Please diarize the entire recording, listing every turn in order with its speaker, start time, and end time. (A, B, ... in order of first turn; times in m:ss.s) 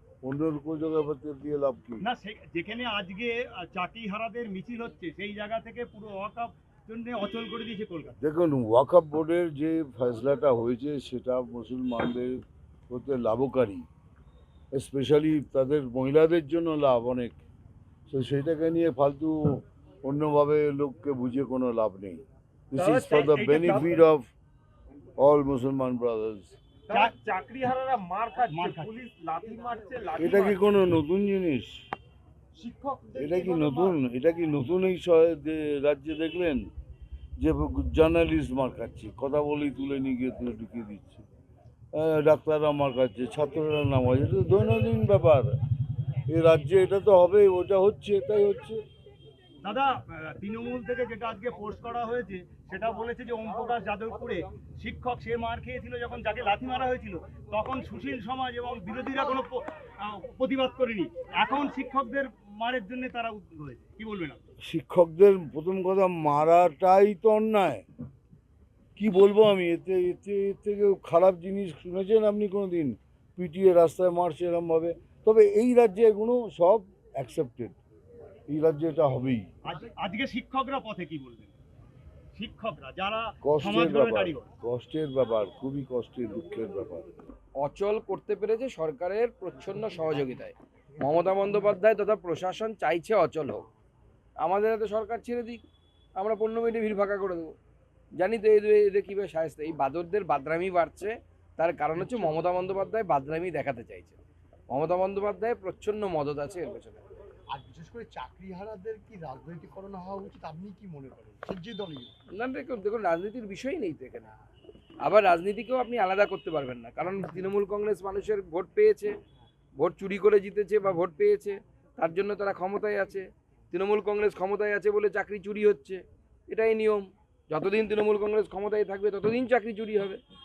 0:00.2-0:02.0 A
0:02.0-0:08.2 B
0:08.2-0:13.8 A
0:14.7-0:17.4 A
0:18.1-0:24.3 A
0:22.8-0:23.9 B
0:23.0-0:23.5 C
0:25.2-0:26.6 A
0:26.9-0:30.6 C
0:28.5-0:29.0 B
0:30.2-0:31.8 A
0:32.6-0:34.0 B
0:32.7-0:33.0 C
0:33.2-0:36.7 A
0:37.4-0:41.2 A
0:41.9-0:45.5 A
0:46.3-0:48.8 A
0:49.6-1:04.4 B
1:04.6-1:07.8 A
1:09.0-1:17.8 A
1:18.5-1:19.5 A
1:19.7-1:21.5 B
1:22.4-1:24.5 B
1:23.4-1:27.1 A
1:27.6-1:33.6 D
1:34.4-1:35.6 D
1:36.2-1:37.5 D
1:38.2-1:44.2 D
1:42.0-1:42.3 E
1:44.7-1:47.1 D
1:47.5-1:52.2 E
1:52.3-1:54.3 D
1:55.0-1:59.1 D
1:59.8-2:10.2 D